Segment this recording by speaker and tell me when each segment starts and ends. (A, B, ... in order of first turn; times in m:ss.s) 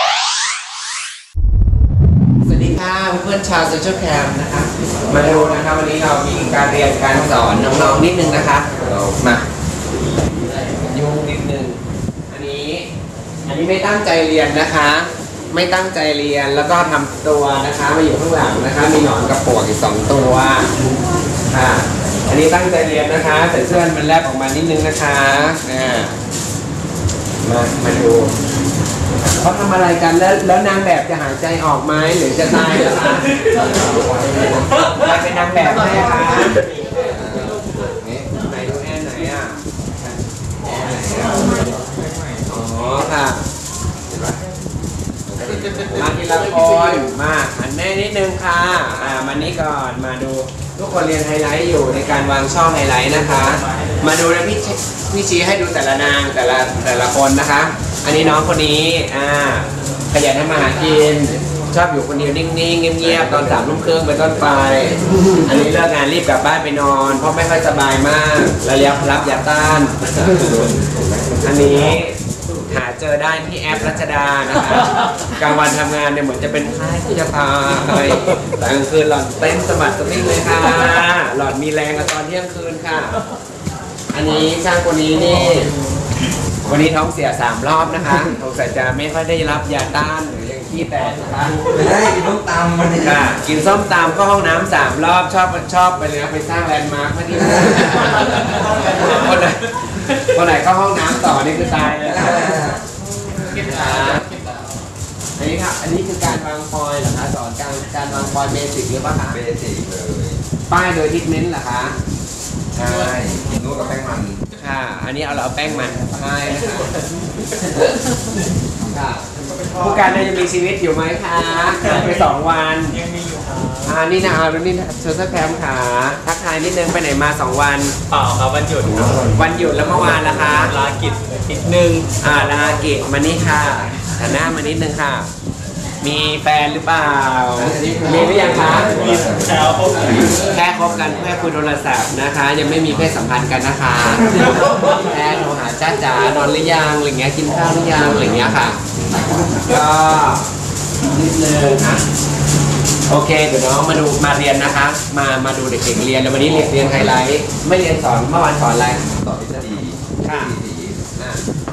0:02.4-0:08.7 A
0:08.8-0:09.4 B
0:10.8-0:11.8 A
0:12.3-0:12.9 A
0:13.5-0:20.7 A
0:21.5-0:26.1 A
0:27.4-0:28.3 A
0:29.4-0:33.4 A
0:34.9-0:36.6 A
0:37.1-0:38.3 B
0:38.3-0:39.6 A
0:40.6-0:41.5 A
0:42.5-0:43.5 A
0:44.1-0:44.4 B
0:45.3-0:46.1 B
0:45.8-1:10.8 A
1:10.4-1:11.4 B
1:11.4-1:12.2 A
1:12.7-1:23.2 A
1:24.1-1:25.7 A
1:26.6-1:31.7 A
1:31.7-1:33.3 B
1:33.0-1:42.6 A
1:42.1-1:42.8 B
1:43.4-1:44.3 A
1:45.4-1:49.4 A
1:49.3-1:50.4 B
1:50.7-1:52.0 A
1:52.8-1:54.4 B
1:54.6-1:57.0 A
1:57.6-1:58.0 A
1:58.9-2:03.0 A
2:03.8-2:07.9 A
2:08.1-2:09.3 C
2:09.1-2:09.3 B
2:09.3-2:10.7 A
2:10.5-2:12.1 C
2:12.2-2:15.3 A
2:16.0-2:19.0 A
2:17.6-2:20.3 B
2:19.0-2:19.5 C
2:20.0-2:28.8 A
2:29.6-2:30.5 A
2:31.0-2:32.0 A
2:33.1-2:39.0 A
2:39.0-2:41.0 B
2:40.2-2:40.6 A
2:41.2-2:41.4 A